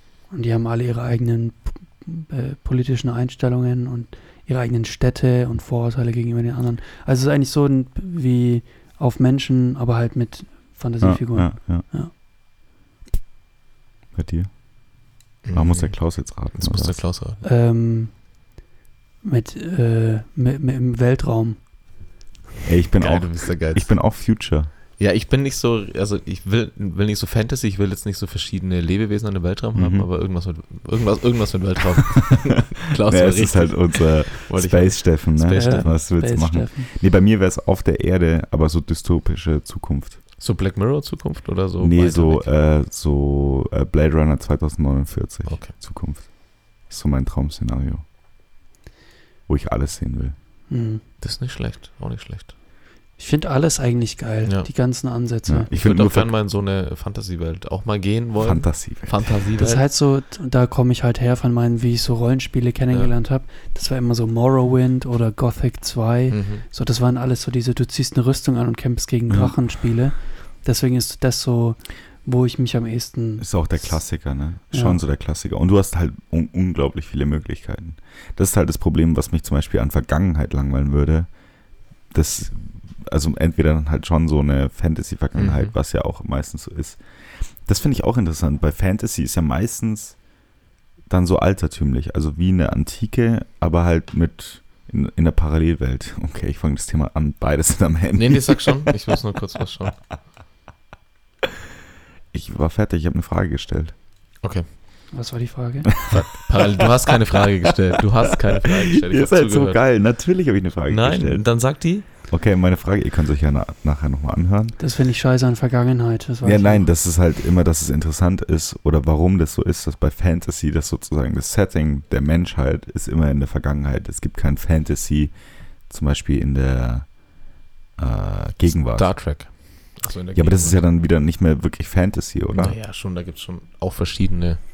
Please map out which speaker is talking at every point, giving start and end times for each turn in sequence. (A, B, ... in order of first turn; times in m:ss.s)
0:00.3-0:12.1 A
0:11.0-0:11.8 B
0:14.1-0:14.6 B
0:15.4-0:17.4 C
0:15.5-0:17.0 B
0:17.4-0:18.2 A
0:19.2-0:21.6 A
0:22.6-0:24.7 B
0:23.0-0:24.1 C
0:25.0-0:36.0 C
0:29.7-0:30.1 B
0:33.0-0:40.2 B
0:35.5-0:36.9 A
0:40.4-0:42.5 C
0:41.8-0:48.0 B
0:45.4-0:45.7 C
0:49.5-0:50.4 B
0:50.7-0:51.0 A
0:51.2-0:52.5 C
0:53.2-0:55.7 A
0:55.5-0:56.3 B
0:55.7-0:59.9 C
0:58.4-0:59.3 B
0:59.6-1:13.8 A
1:06.3-1:06.6 C
1:09.3-1:09.6 B
1:13.4-1:21.3 B
1:14.7-1:15.0 A
1:22.1-1:27.0 B
1:25.4-1:25.7 C
1:27.6-1:30.2 B
1:31.1-1:38.9 B
1:38.1-1:40.0 C
1:42.3-1:43.9 B
1:44.4-1:44.7 C
1:45.1-1:46.0 A
1:46.1-1:49.8 C
1:48.9-1:54.8 B
1:50.9-1:52.1 C
1:54.8-1:56.9 A
1:56.4-2:05.3 B
2:05.9-2:07.2 B
2:08.0-2:09.2 B
2:08.6-2:10.8 C
2:10.3-2:12.8 B
2:12.5-2:14.6 C